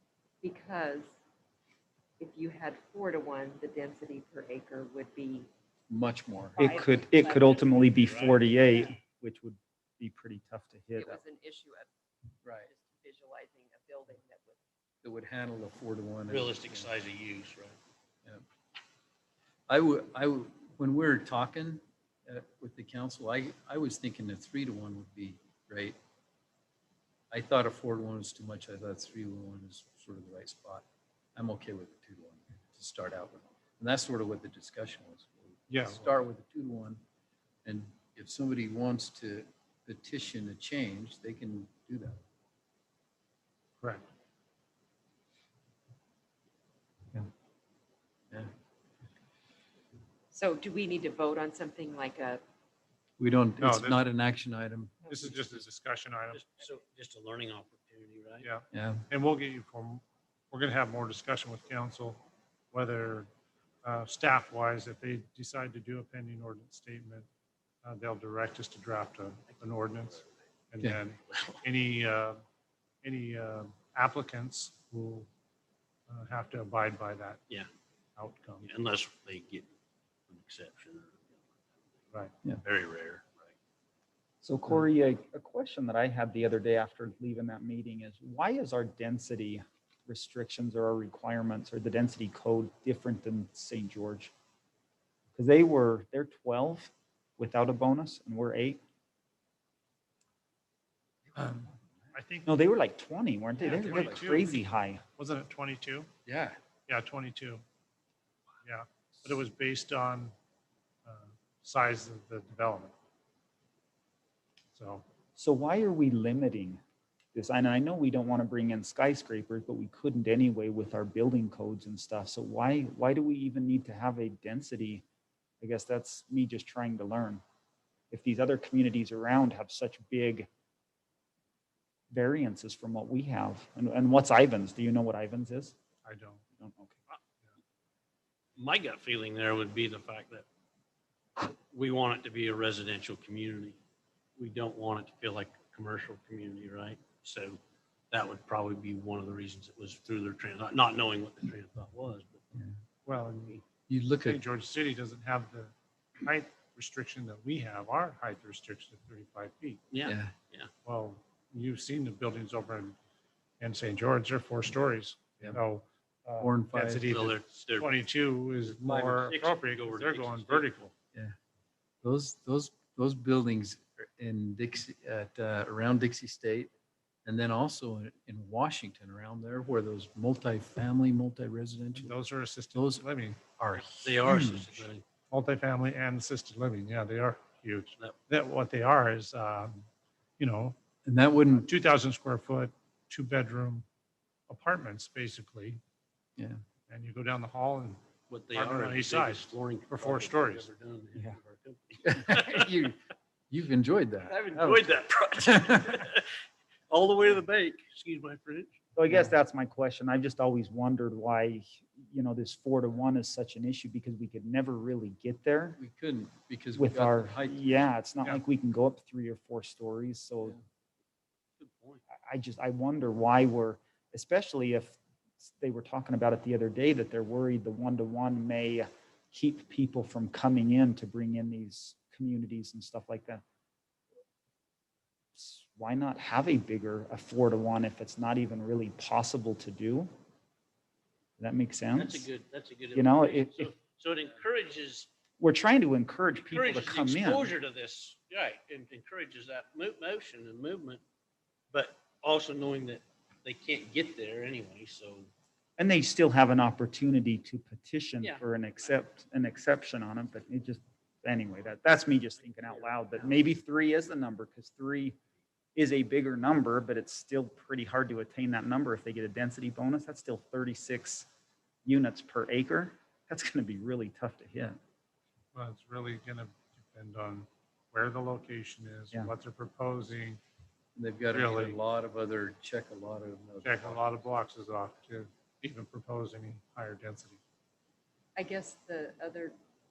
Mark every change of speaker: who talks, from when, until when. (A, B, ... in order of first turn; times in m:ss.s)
0:00.4-0:01.2 A
0:02.2-0:05.5 A
0:05.9-0:06.7 B
0:06.5-0:08.0 A
0:06.6-0:11.2 C
0:07.3-0:08.5 D
0:08.5-0:08.9 A
0:11.0-0:11.9 A
0:12.4-0:12.7 B
0:12.5-0:14.6 A
0:15.0-0:16.9 B
0:16.3-0:17.8 D
0:19.7-0:26.0 B
0:27.3-0:37.0 B
0:35.7-0:36.1 E
0:37.6-0:42.2 B
0:43.8-0:44.1 E
0:50.3-0:52.4 A
0:53.2-0:55.1 B
0:53.6-0:54.0 E
0:55.1-0:55.5 A
0:55.1-0:56.4 E
0:56.3-0:58.5 D
0:58.4-1:03.3 E
0:58.7-0:59.0 B
1:03.8-1:07.3 E
1:07.8-1:12.4 E
1:09.6-1:10.3 D
1:11.3-1:11.6 D
1:13.0-1:15.3 E
1:16.1-1:17.4 E
1:18.2-1:18.7 E
1:18.6-1:19.7 D
1:20.3-1:21.8 D
1:22.5-1:23.5 D
1:24.4-1:34.3 C
1:35.4-1:38.8 C
1:41.3-1:41.9 B
1:42.1-1:42.5 E
1:42.4-1:45.0 C
1:43.5-1:44.6 E
1:43.8-1:44.2 B
1:45.2-1:46.1 E
1:46.2-1:46.6 B
1:46.9-1:47.6 E
1:48.6-1:50.3 E
1:51.0-1:52.9 E
1:54.7-1:55.0 E
1:55.4-1:56.8 C
1:57.3-2:05.0 C
2:05.6-2:07.4 C
2:08.1-2:10.5 C
2:12.1-2:15.7 C
2:16.0-2:16.4 E
2:16.6-2:17.0 C
2:18.6-2:20.4 D
2:21.4-2:23.8 D
2:24.4-2:27.6 D
2:28.1-2:32.5 D
2:33.0-2:33.6 E
2:33.9-2:34.4 B
2:34.2-2:39.8 E
2:39.9-2:40.7 D
2:40.0-2:40.3 B
2:40.8-2:43.0 E
2:43.6-2:50.9 E
2:46.4-2:47.2 B
2:47.1-2:48.0 D
2:48.6-2:50.7 D
2:52.0-2:56.7 B
2:57.2-3:02.2 B
3:01.9-3:03.9 E
3:02.7-3:03.0 B
3:03.6-3:04.8 B
3:04.0-3:05.0 D
3:05.2-3:09.8 E
3:10.4-3:10.8 E
3:11.0-3:11.7 B
3:11.5-3:13.8 E
3:14.5-3:15.8 E
3:16.9-3:20.7 E
3:18.3-3:22.8 D
3:22.0-3:23.0 B
3:23.5-3:26.0 B
3:24.2-3:26.3 D
3:26.9-3:28.8 D
3:29.0-3:35.8 C
3:35.8-3:37.9 B
3:36.8-3:40.6 C
3:41.6-3:42.0 D
3:42.2-3:53.4 C
3:55.3-4:00.1 C
4:01.4-4:02.3 C
4:01.9-4:05.1 D
4:02.9-4:03.7 C
4:05.4-4:07.5 C
4:06.5-4:11.0 D
4:11.7-4:15.3 D
4:15.8-4:25.2 C
4:22.5-4:23.4 D
4:25.8-4:31.3 C
4:31.8-4:34.8 C
4:35.5-4:40.4 E
4:41.0-4:44.0 B
4:41.3-4:41.8 E
4:43.6-4:47.4 E
4:48.3-4:49.6 A